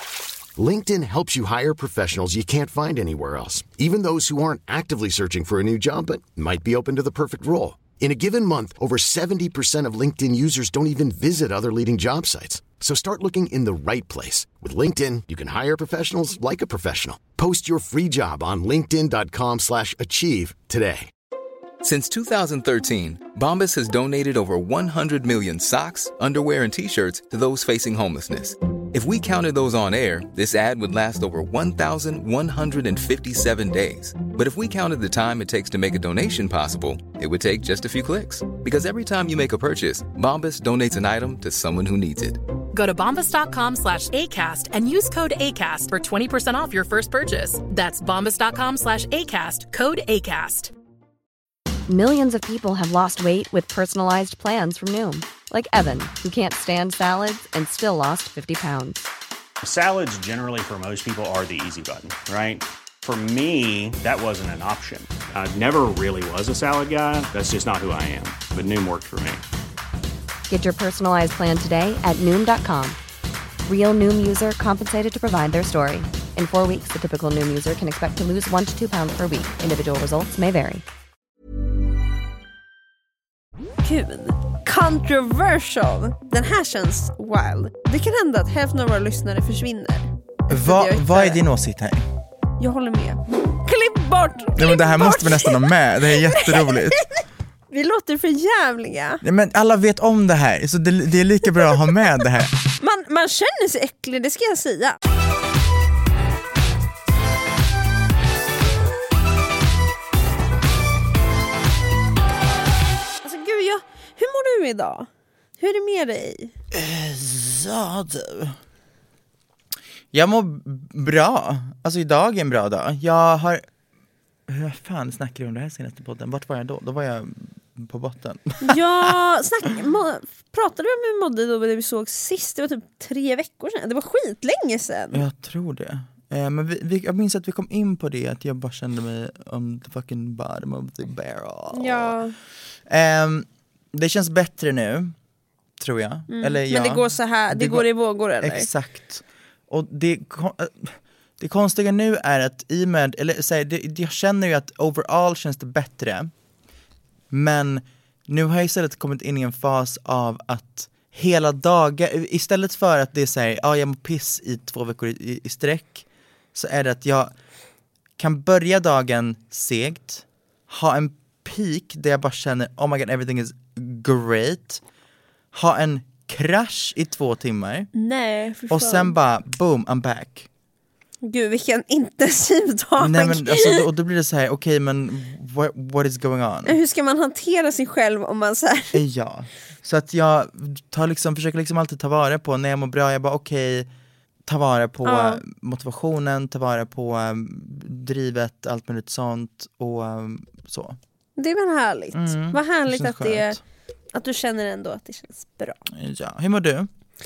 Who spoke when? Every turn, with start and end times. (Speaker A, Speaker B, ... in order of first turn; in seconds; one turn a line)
Speaker A: 0.6-21.1
Speaker B: 21.8-42.4
Speaker C: 42.7-50.7
Speaker D: 51.9-59.0
Speaker E: 59.6-69.4
Speaker D: 70.5-73.0
Speaker D: 73.7-80.8
Speaker F: 83.8-91.4
Speaker G: 90.5-92.1
Speaker F: 92.6-99.2
Speaker G: 94.6-97.1
Speaker G: 99.2-102.5
Speaker F: 102.8-105.0
Speaker F: 113.2-115.1
Speaker F: 115.6-116.5
Speaker G: 116.7-118.6
Speaker G: 120.1-123.6
Speaker G: 124.5-129.1
Speaker F: 128.6-135.2
Speaker G: 135.1-142.2
Speaker F: 141.7-142.3
Speaker G: 142.9-145.2
Speaker G: 145.8-147.9
Speaker F: 146.3-148.7
Speaker G: 148.4-156.3
Speaker G: 157.3-167.3
Speaker G: 168.2-174.8
Speaker G: 175.5-177.9
Speaker F: 177.9-179.2
Speaker G: 178.7-180.5
Speaker F: 181.2-183.8
Speaker G: 183.0-186.8
Speaker F: 186.7-189.0
Speaker G: 188.9-193.9
Speaker G: 194.5-201.0
Speaker F: 195.1-195.4
Speaker F: 201.4-203.6
Speaker G: 202.1-203.6
Speaker F: 204.1-205.8
Speaker G: 205.9-206.9